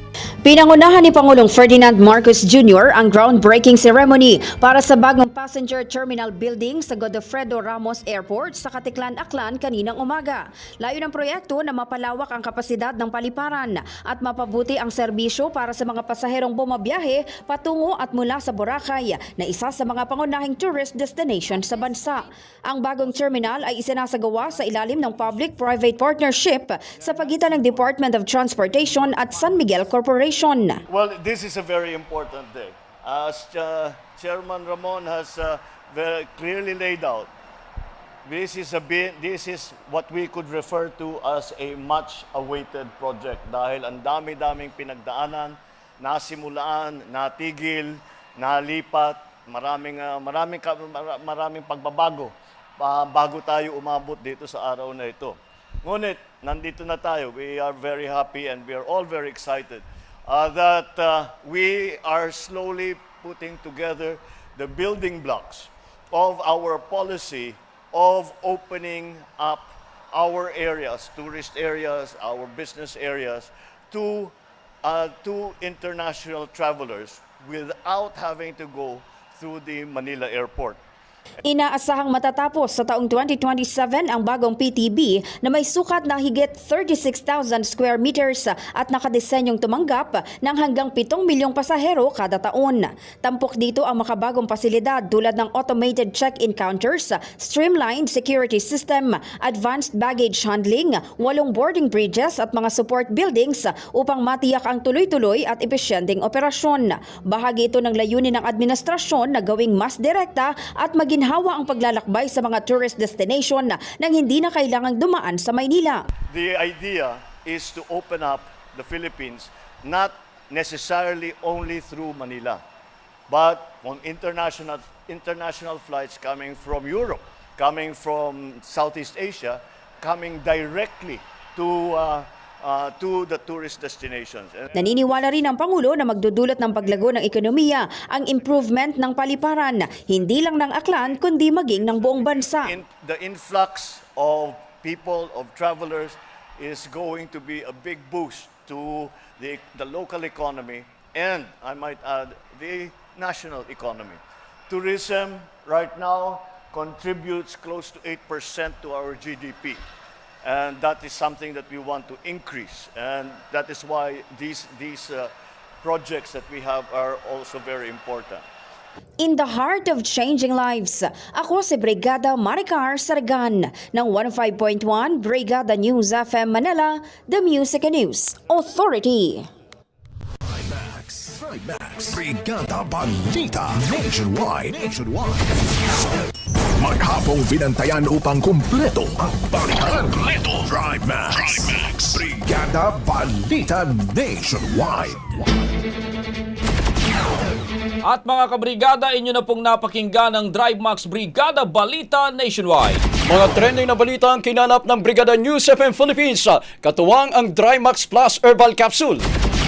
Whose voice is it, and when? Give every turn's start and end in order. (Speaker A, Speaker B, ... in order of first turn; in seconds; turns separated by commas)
Speaker A: 0.4-30.8, Speaker B: 30.9-37.3, Speaker B: 38.2-74.3, Speaker B: 74.8-80.8, Speaker A: 81.4-116.0, Speaker B: 116.3-122.6, Speaker B: 123.3-135.2, Speaker A: 134.7-142.7, Speaker B: 142.6-159.8, Speaker B: 160.4-165.3, Speaker B: 165.8-168.4, Speaker A: 169.2-179.5, Speaker C: 180.4-185.6, Speaker C: 186.8-195.4, Speaker D: 198.1-203.1, Speaker E: 203.3-209.3